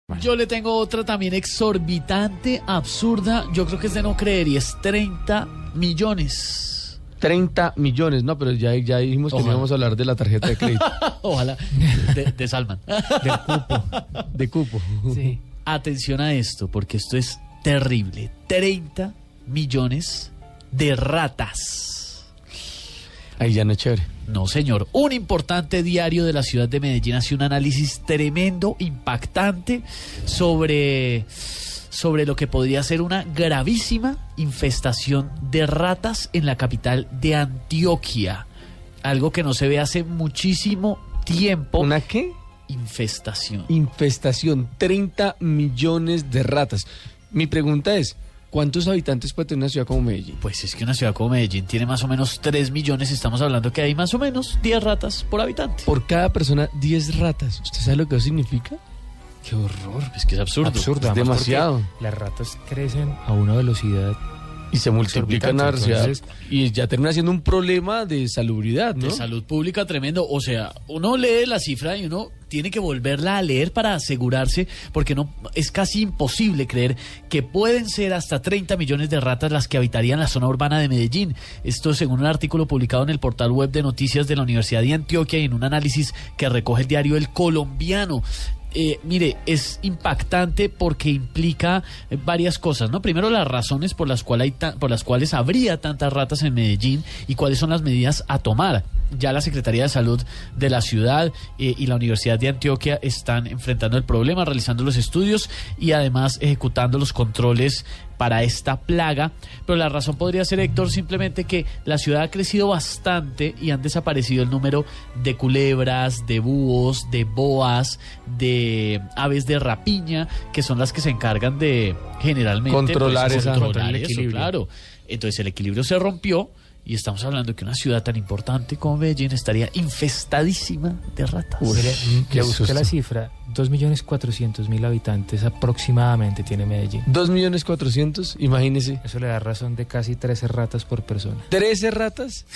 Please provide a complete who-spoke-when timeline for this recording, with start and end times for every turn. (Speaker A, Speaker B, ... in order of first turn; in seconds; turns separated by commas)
Speaker A: 0.1-7.0, Speaker B: 7.2-10.9, Speaker A: 9.3-9.7, Speaker A: 10.4-14.2, Speaker C: 13.2-13.9, Speaker B: 14.3-15.4, Speaker A: 15.6-22.2, Speaker B: 23.4-24.1, Speaker A: 24.2-38.5, Speaker A: 39.0-41.9, Speaker B: 41.8-42.4, Speaker A: 42.7-43.7, Speaker B: 43.7-50.4, Speaker A: 50.4-55.9, Speaker B: 55.9-58.8, Speaker C: 59.4-60.0, Speaker A: 60.1-61.6, Speaker C: 60.7-64.2, Speaker B: 61.0-61.9, Speaker B: 64.7-69.2, Speaker C: 65.1-66.2, Speaker A: 68.9-131.8, Speaker B: 122.7-123.7, Speaker C: 123.3-124.5, Speaker B: 131.6-132.9, Speaker C: 131.7-137.0, Speaker B: 137.1-139.0, Speaker C: 139.0-141.4, Speaker B: 141.5-142.4